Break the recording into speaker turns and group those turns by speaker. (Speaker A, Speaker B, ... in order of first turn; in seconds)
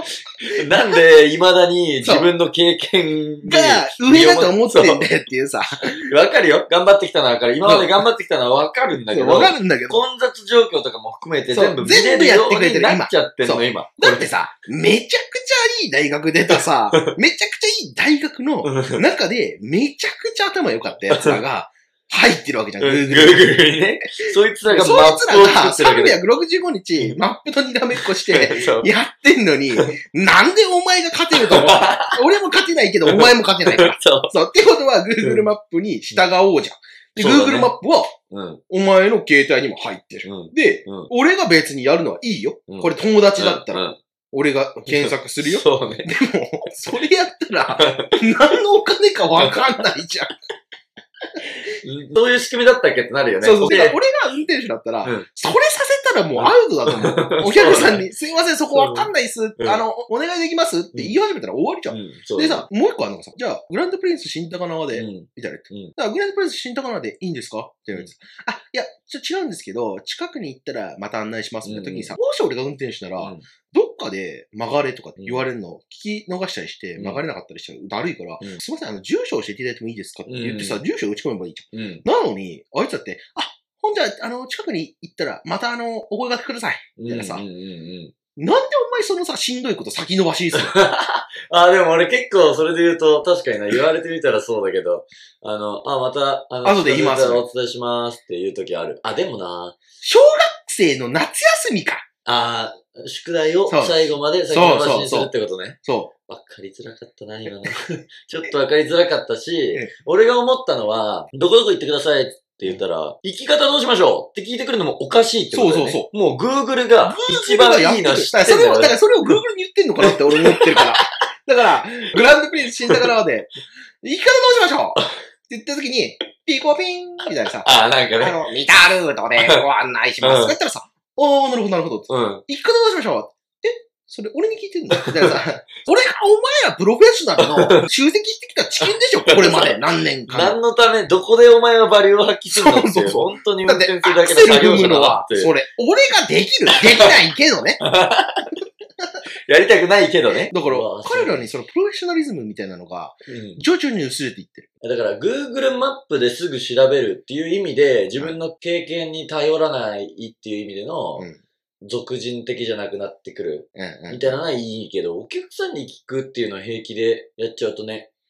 Speaker A: 0.5-5.1, 6.0-14.3, 18.6-19.0, 21.1-21.4, 22.8-26.2, 27.9-28.9, 31.3-32.2, 33.0-34.3, 35.2-35.5, 37.2-37.8, 38.3-38.6, 40.2-41.1, 42.7-44.0, 44.9-46.1, 47.7-48.2, 51.8-54.0, 56.4-58.0, 58.7-59.8, 61.9-62.7, 64.9-65.9, 71.6-72.1, 73.2-73.5, 75.2-75.5, 77.0-77.2, 80.3-80.8, 81.7-82.0, 87.0-88.1, 90.6-99.8, 102.2-119.4, 120.0-121.0, 127.6-128.4, 130.2-130.6, 132.1-132.4, 135.0-135.3, 137.4-137.8, 139.3-139.8, 140.3-145.6, 146.8-147.1, 147.9-148.5, 149.5-151.5, 153.3-153.6, 154.8-161.3, 161.9-168.1
Speaker B: 2.0-2.3, 3.5-6.1, 7.6-8.1, 9.0-10.1, 11.5-23.6, 24.7-38.2, 38.7-50.3, 53.4-87.5, 88.4-90.8, 96.6-97.5, 100.0-102.0, 103.7-105.3, 105.8-106.1, 115.5-116.1, 117.0-123.5, 124.0-140.6, 142.5-147.8, 150.5-154.7, 163.8-164.4